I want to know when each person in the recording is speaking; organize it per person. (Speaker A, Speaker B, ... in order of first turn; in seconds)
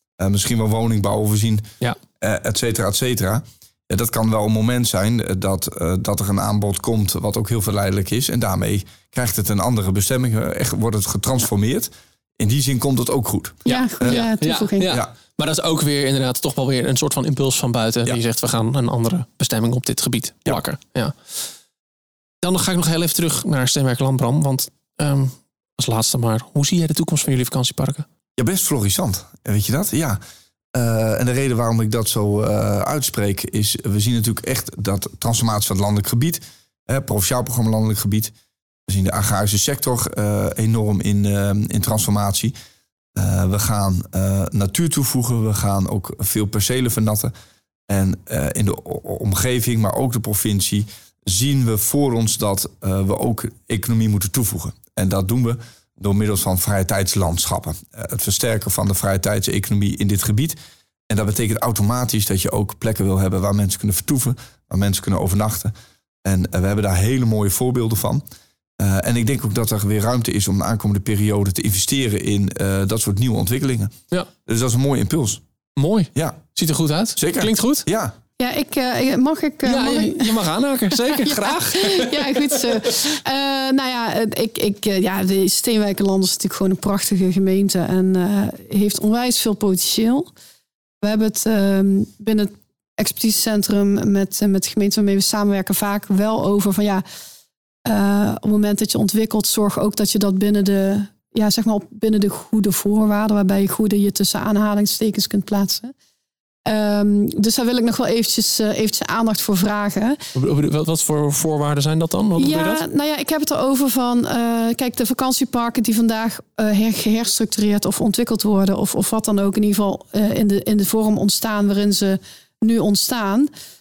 Speaker A: 0.2-1.7, 2.2-14.2, 28.4-30.2, 30.7-38.3, 38.9-42.5, 43.1-47.3, 47.9-60.6, 61.1-65.7, 66.2-68.2, 68.8-75.4, 76.2-76.4, 77.2-78.2
Speaker B: 13.7-14.9, 78.4-80.4, 81.1-90.3, 91.0-97.0, 97.9-105.9, 106.7-110.2, 112.4-123.5
Speaker C: 13.7-21.4, 22.4-28.1, 75.8-77.9, 79.6-82.9, 110.3-112.8